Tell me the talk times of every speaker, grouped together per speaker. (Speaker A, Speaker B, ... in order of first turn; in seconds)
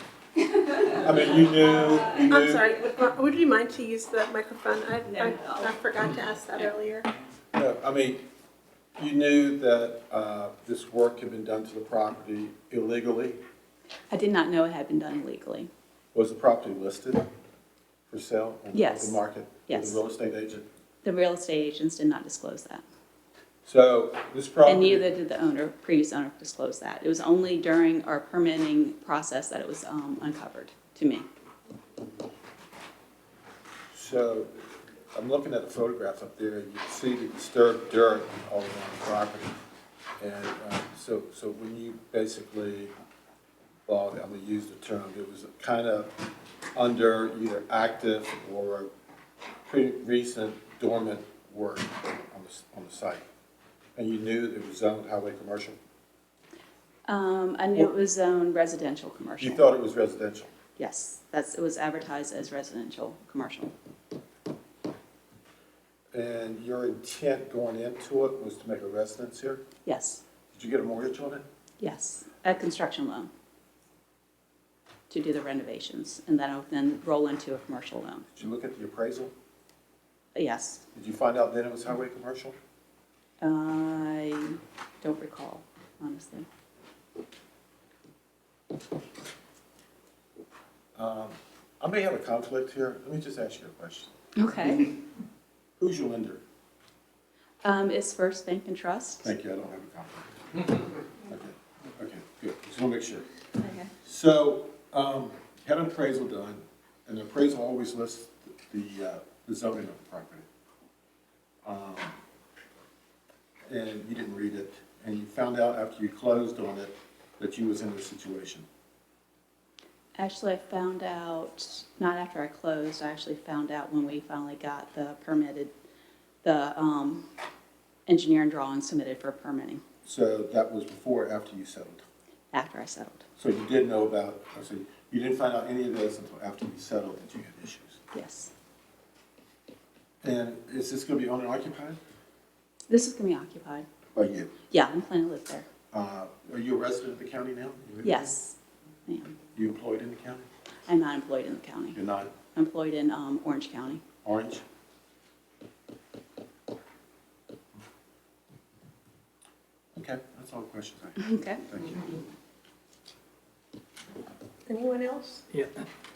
Speaker A: 0.9-2.7, 7.5-8.2, 9.0-13.4, 16.1-17.3, 18.1-20.6, 23.6-25.1, 33.9-34.5, 35.1-39.5, 40.2-42.9, 43.9-46.1, 46.7-48.9, 49.6-53.2, 54.0-55.8, 59.4-60.5, 66.1-69.6, 70.5-71.4, 78.3-79.3, 80.9-82.5, 91.0-94.1, 95.8-96.4, 99.2-100.7, 101.3-103.3, 104.0-110.4, 111.7-112.1, 113.7-118.7, 130.0-132.0, 133.4-138.0, 140.2-142.0, 144.1-144.5, 145.9-148.3, 149.5-150.5, 151.9-152.3, 154.2-154.6, 159.9-162.1
Speaker B: 2.3-7.1, 164.7-165.4
Speaker C: 14.1-15.7, 18.7-20.0, 21.0-22.8, 24.6-31.2, 57.1-59.7, 60.8-63.7, 69.8-70.2, 71.8-73.3, 75.1-78.3, 80.3-80.8, 83.4-86.5, 94.4-94.9, 97.6-99.3, 103.6-103.9, 120.2-125.7, 126.4-127.3, 128.1-129.8, 132.5-133.2, 138.1-138.5, 142.9-143.8, 144.7-145.7, 148.0-149.3, 150.9-152.0, 152.5-154.0, 161.2-161.6